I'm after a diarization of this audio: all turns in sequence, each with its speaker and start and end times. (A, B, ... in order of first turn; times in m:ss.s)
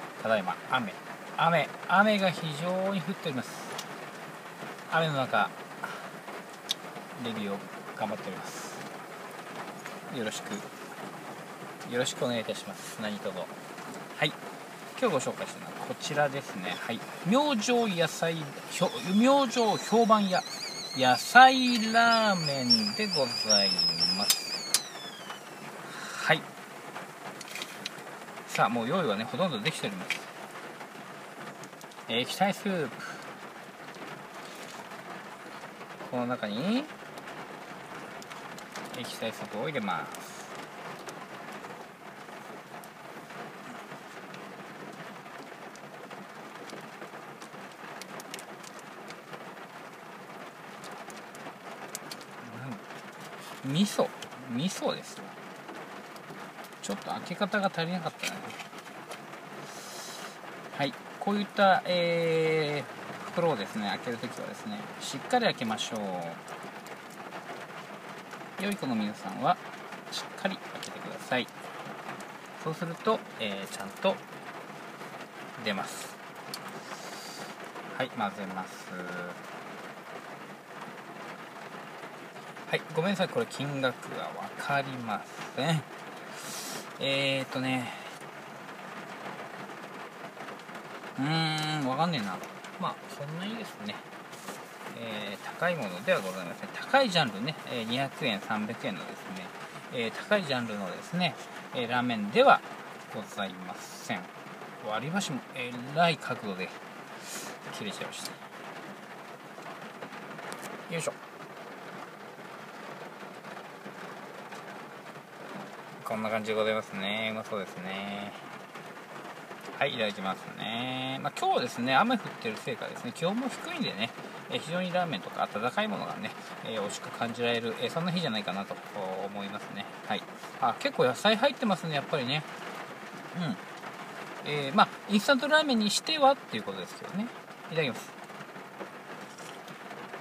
0:00.2-0:03.8 A
0:04.9-0:06.1 A
0:07.1-0:08.9 A
0:10.1-0:10.7 A
0:11.8-0:13.5 A
0:15.0-0:24.6 A
0:25.8-0:26.5 A
0:28.5-0:30.3 A
0:32.1-0:33.3 A
0:36.0-0:36.9 A
0:38.9-0:40.5 A
0:52.4-0:52.8 A
0:53.6-0:55.4 A
0:56.8-0:58.6 A
1:00.7-1:06.4 A
1:08.6-1:11.5 A
1:12.6-1:14.2 A
1:15.6-1:16.2 A
1:17.9-1:19.4 A
1:22.7-1:28.2 A
1:31.2-1:34.1 A
1:34.9-1:48.4 A
1:50.9-1:51.2 A
1:56.0-1:58.5 A
1:59.7-2:12.5 A
2:13.3-2:13.6 A
2:14.4-2:18.1 A